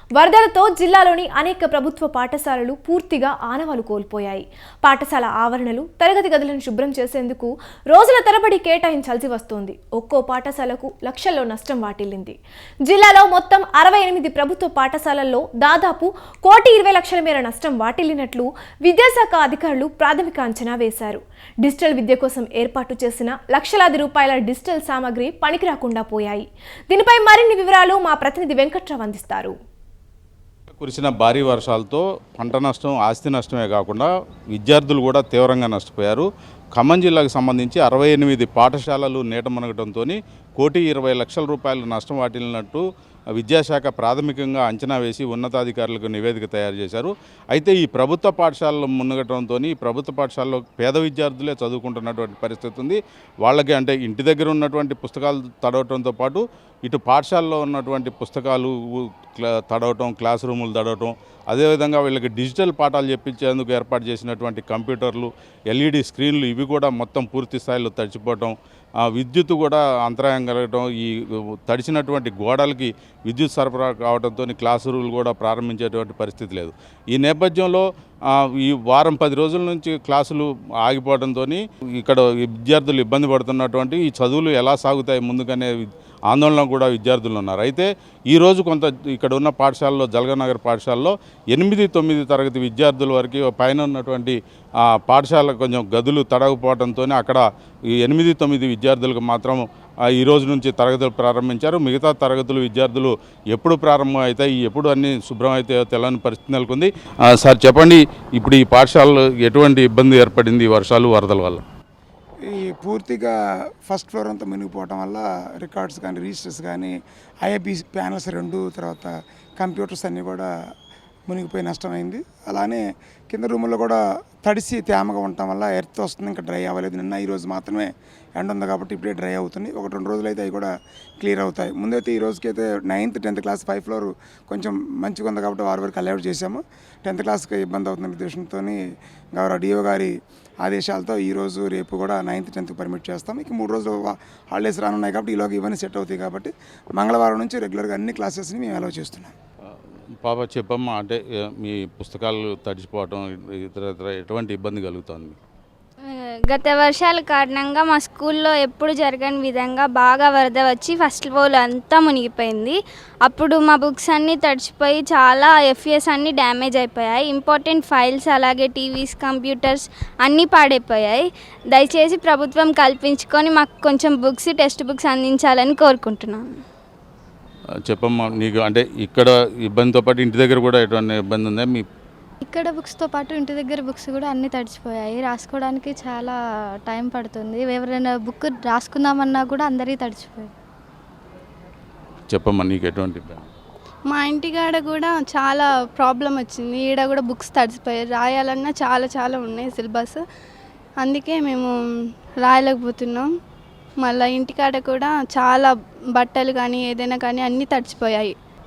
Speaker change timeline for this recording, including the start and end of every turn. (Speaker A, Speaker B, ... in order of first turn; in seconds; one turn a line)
Speaker A: 0.2-12.4
Speaker A: 12.9-29.5
Speaker B: 30.7-42.8
Speaker B: 43.4-68.5
Speaker B: 69.0-71.1
Speaker B: 71.7-85.7
Speaker B: 86.3-97.4
Speaker B: 98.0-111.6
Speaker C: 112.5-113.3
Speaker C: 113.8-120.5
Speaker C: 121.3-138.8
Speaker C: 139.3-140.1
Speaker C: 140.6-149.3
Speaker B: 150.2-155.4
Speaker D: 156.1-176.6
Speaker B: 177.8-181.8
Speaker E: 182.4-190.5
Speaker B: 192.3-193.5
Speaker F: 194.1-200.2
Speaker F: 201.0-201.7
Speaker F: 202.4-203.3
Speaker F: 204.0-208.3